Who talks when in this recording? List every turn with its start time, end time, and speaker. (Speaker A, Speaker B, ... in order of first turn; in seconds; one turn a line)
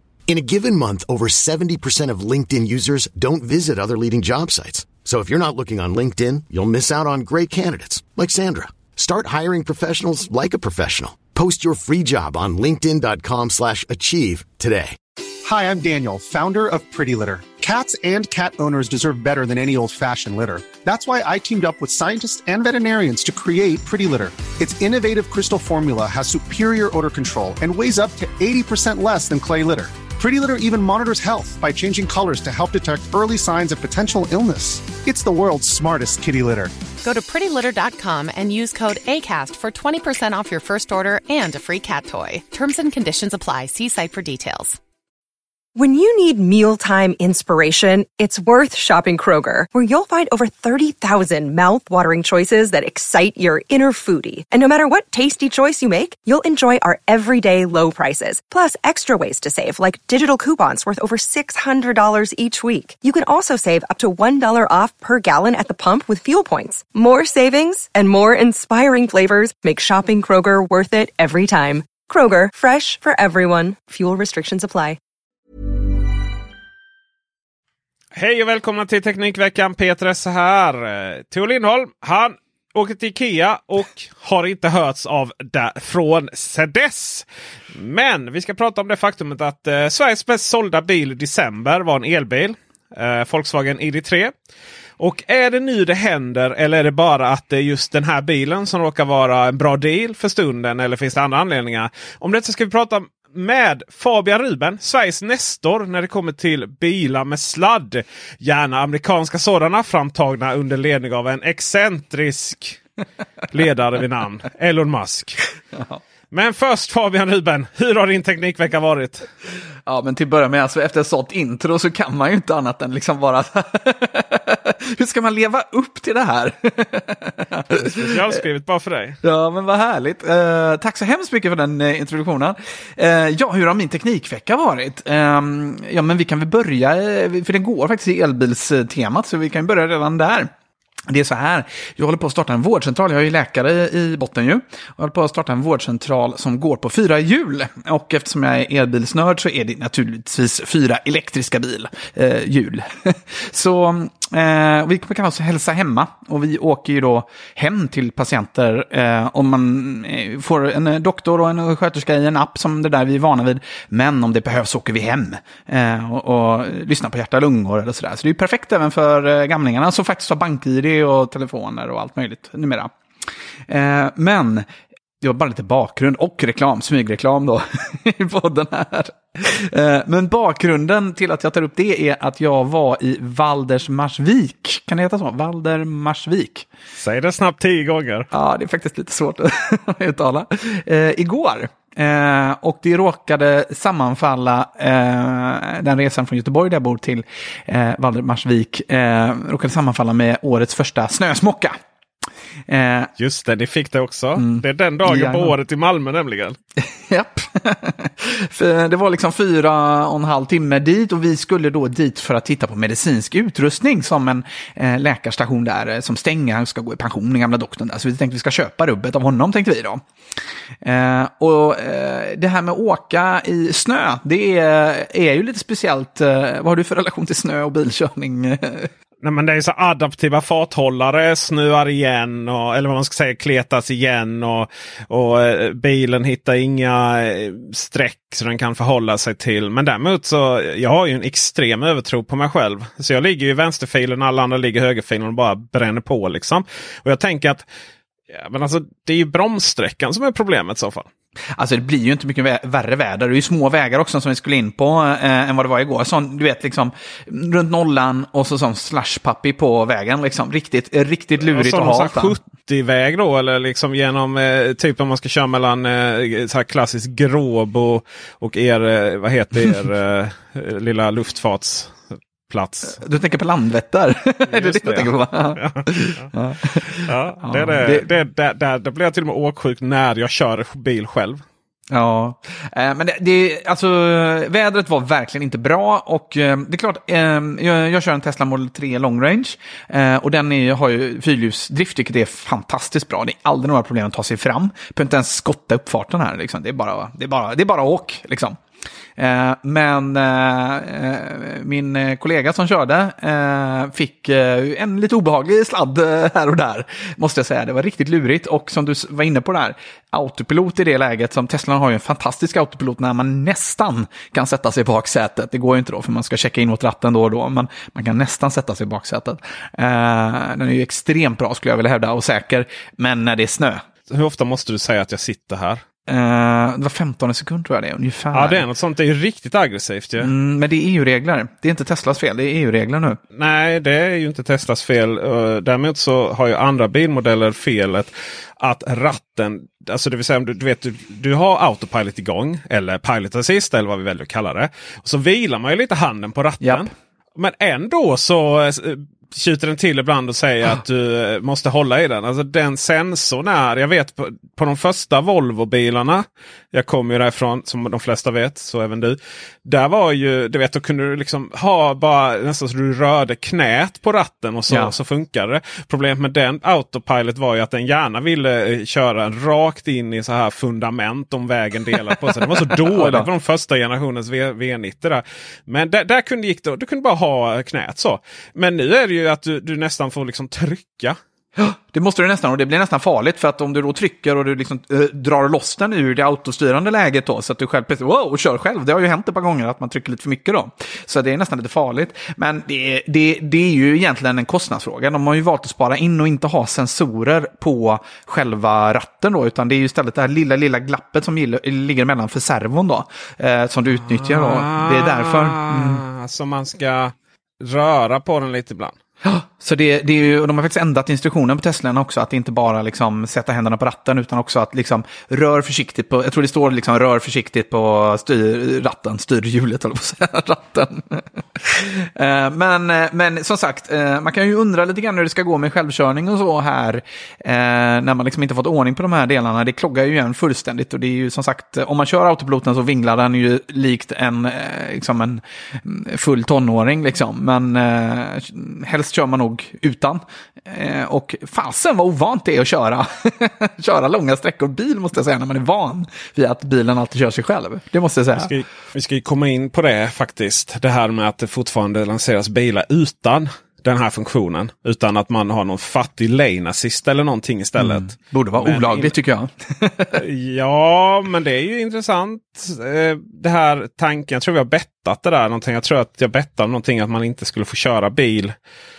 Speaker A: 0.3-15.0
Speaker B: 15.4-36.7
Speaker C: 37.0-44.8
Speaker D: 45.8-75.0
Speaker E: 78.1-94.3
Speaker E: 95.0-112.8
Speaker E: 113.5-115.5
Speaker F: 115.7-116.0
Speaker E: 116.3-119.3
Speaker F: 119.9-128.4
Speaker E: 127.9-129.2
Speaker F: 129.2-140.5
Speaker F: 141.1-172.9
Speaker F: 173.7-174.7
Speaker F: 175.2-186.7
Speaker E: 187.0-188.3
Speaker F: 188.3-201.8
Speaker F: 202.7-203.1
Speaker E: 203.2-206.6
Speaker F: 204.4-205.5
Speaker F: 206.8-220.0
Speaker F: 220.8-228.9
Speaker E: 229.2-247.7
Speaker E: 248.3-251.1
Speaker F: 251.5-262.4
Speaker E: 261.4-273.0
Speaker F: 272.9-278.1
Speaker E: 274.5-276.3
Speaker E: 276.9-281.4
Speaker F: 281.9-298.6
Speaker F: 299.2-323.8
Speaker E: 324.1-325.8
Speaker F: 326.1-328.6
Speaker E: 328.3-330.3
Speaker F: 330.2-333.2
Speaker E: 333.3-381.2
Speaker F: 346.6-346.9
Speaker F: 372.5-373.3
Speaker F: 381.6-406.0
Speaker E: 404.1-409.0
Speaker F: 409.2-448.5
Speaker E: 448.4-459.1
Speaker F: 457.8-460.2
Speaker E: 460.1-468.5